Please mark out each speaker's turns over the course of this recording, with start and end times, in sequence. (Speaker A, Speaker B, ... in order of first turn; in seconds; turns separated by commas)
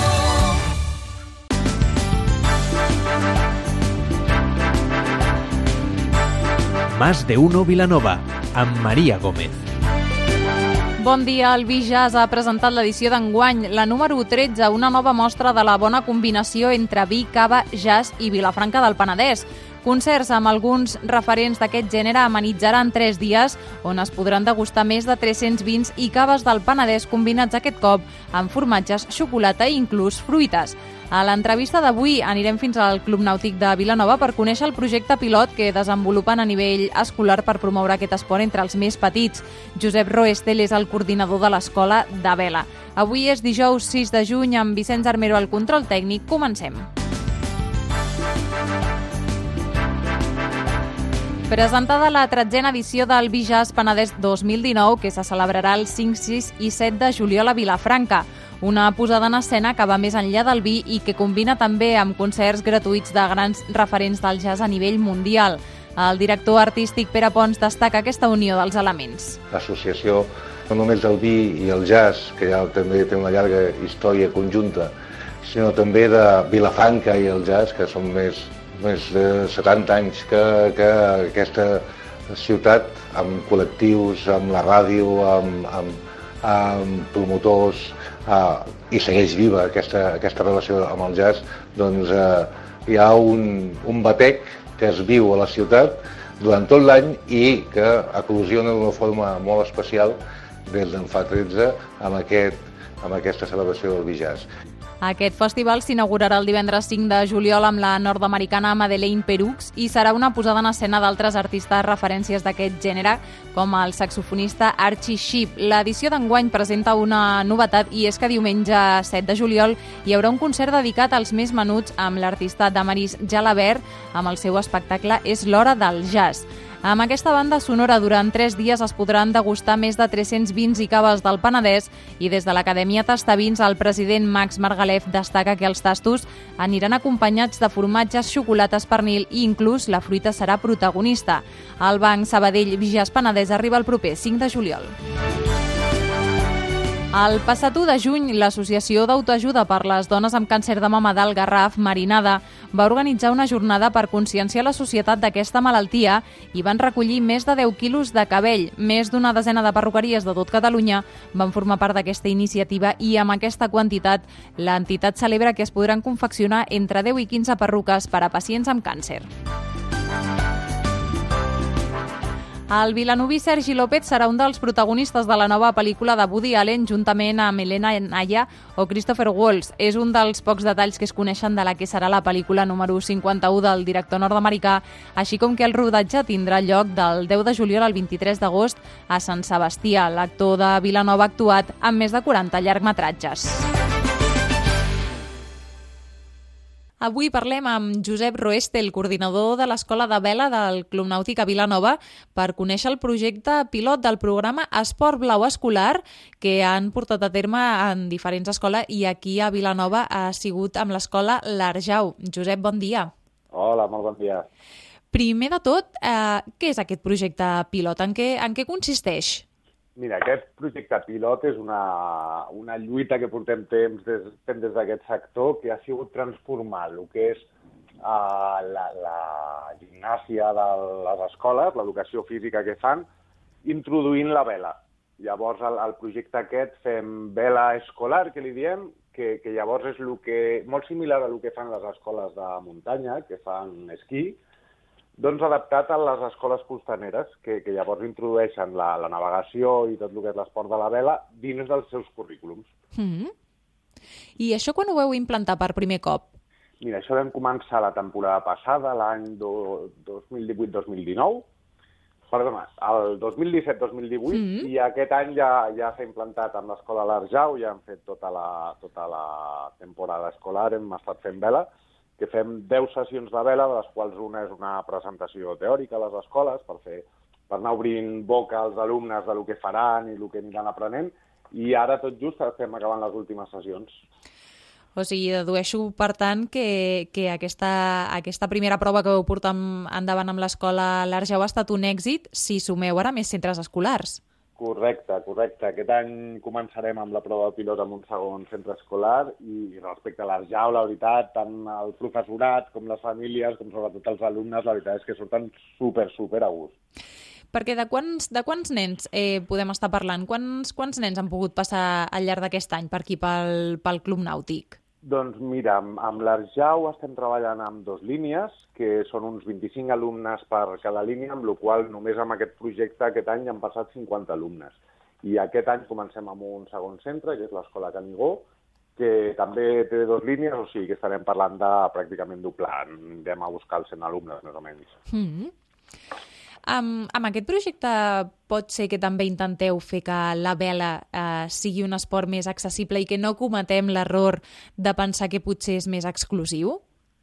Speaker A: 7.0-9.3, Speaker B: 11.0-46.9, Speaker B: 51.5-69.4, Speaker C: 69.5-74.9, Speaker C: 75.4-104.5, Speaker B: 105.0-144.9, Speaker B: 147.1-169.3, Speaker B: 172.7-193.7, Speaker B: 197.0-213.1, Speaker D: 213.5-214.5, Speaker B: 215.1-219.4, Speaker D: 220.0-227.5, Speaker D: 228.0-233.1, Speaker D: 233.7-244.4, Speaker D: 245.2-252.7, Speaker B: 252.9-253.3, Speaker B: 254.4-256.4, Speaker D: 256.8-261.4, Speaker D: 262.3-271.7, Speaker B: 264.3-264.7, Speaker D: 272.2-283.9, Speaker B: 285.0-294.2, Speaker D: 294.6-306.7, Speaker B: 307.5-314.8, Speaker D: 315.0-334.9, Speaker B: 335.1-335.5, Speaker B: 336.7-346.8